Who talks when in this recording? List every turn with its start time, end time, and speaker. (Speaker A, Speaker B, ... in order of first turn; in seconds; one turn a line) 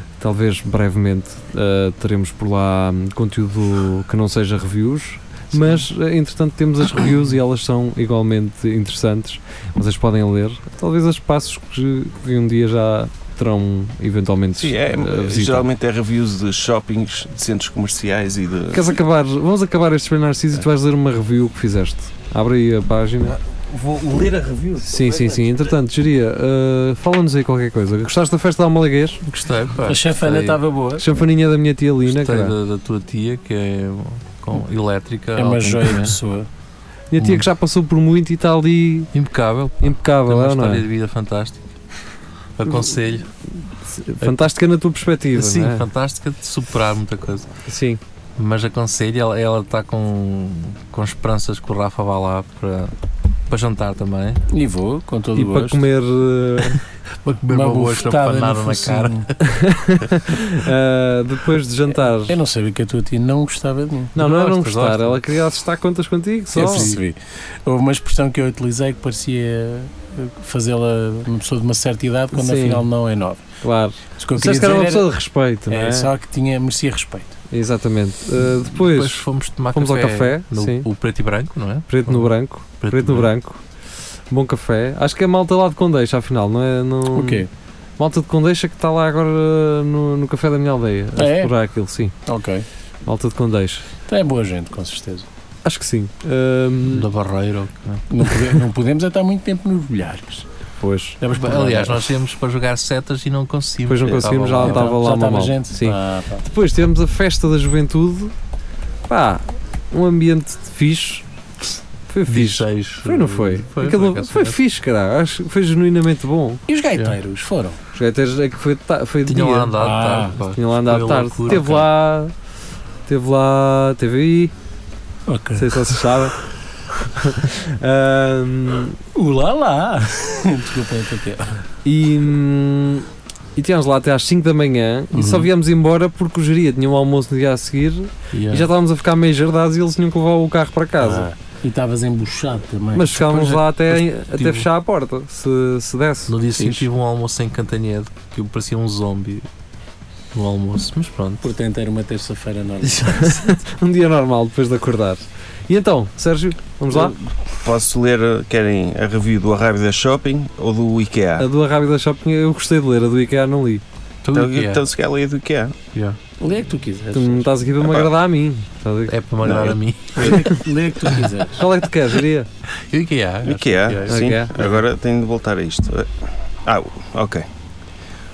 Speaker A: 0.2-15.7
Speaker B: 14.6-19.0
Speaker A: 18.7-23.4
Speaker B: 23.3-25.7
Speaker A: 24.9-29.2
Speaker C: 29.3-30.6
Speaker D: 29.8-31.1
Speaker A: 31.0-32.5
Speaker C: 32.1-36.2
Speaker D: 35.4-36.5
Speaker A: 37.1-39.1
Speaker C: 37.2-37.5
Speaker C: 39.1-41.6
Speaker A: 39.8-40.9
Speaker C: 42.6-43.3
Speaker A: 43.9-45.8
Speaker C: 44.2-44.5
Speaker C: 45.3-47.5
Speaker A: 47.7-48.0
Speaker C: 48.4-52.9
Speaker C: 53.5-54.4
Speaker D: 54.5-55.8
Speaker A: 55.3-56.8
Speaker C: 57.2-59.4
Speaker D: 57.5-59.3
Speaker A: 59.4-62.4
Speaker D: 61.9-64.2
Speaker A: 64.2-66.9
Speaker C: 64.2-65.1
Speaker D: 66.5-73.5
Speaker C: 66.6-67.0
Speaker A: 72.3-72.9
Speaker A: 73.6-76.1
Speaker D: 74.2-75.1
Speaker D: 75.7-77.4
Speaker A: 77.5-80.9
Speaker C: 78.7-83.3
Speaker A: 81.9-83.6
Speaker A: 84.3-87.5
Speaker D: 87.1-87.5
Speaker A: 88.0-92.1
Speaker D: 91.2-91.5
Speaker D: 92.3-92.6
Speaker A: 93.0-93.8
Speaker D: 94.1-95.3
Speaker A: 95.6-97.1
Speaker C: 96.9-98.6
Speaker D: 98.1-100.5
Speaker A: 100.8-101.2
Speaker D: 101.2-102.1
Speaker C: 101.3-105.0
Speaker A: 103.9-108.3
Speaker D: 104.6-106.5
Speaker A: 109.1-111.2
Speaker A: 112.1-116.6
Speaker C: 112.3-114.6
Speaker D: 116.7-117.8
Speaker A: 117.9-122.3
Speaker C: 119.3-121.9
Speaker D: 119.8-120.3
Speaker A: 123.1-124.5
Speaker D: 125.3-126.0
Speaker A: 125.6-126.4
Speaker A: 127.2-129.0
Speaker D: 129.1-131.6
Speaker A: 131.8-141.3
Speaker D: 135.1-135.5
Speaker C: 138.3-138.7
Speaker D: 141.0-143.4
Speaker A: 142.9-146.4
Speaker C: 143.2-144.7
Speaker C: 146.3-149.4
Speaker D: 146.6-146.8
Speaker C: 150.3-151.4
Speaker D: 151.4-153.4
Speaker C: 152.9-153.3
Speaker A: 153.2-157.1
Speaker B: 156.9-161.5
Speaker A: 161.4-163.8
Speaker C: 164.2-164.9
Speaker B: 164.3-165.8
Speaker C: 165.9-166.2
Speaker D: 166.4-167.5
Speaker A: 167.1-169.2
Speaker B: 167.8-168.1
Speaker C: 169.1-170.3
Speaker B: 169.4-170.3
Speaker D: 170.1-171.6
Speaker A: 171.6-172.5
Speaker C: 172.9-174.6
Speaker B: 173.4-176.1
Speaker A: 174.1-174.8
Speaker B: 176.7-177.5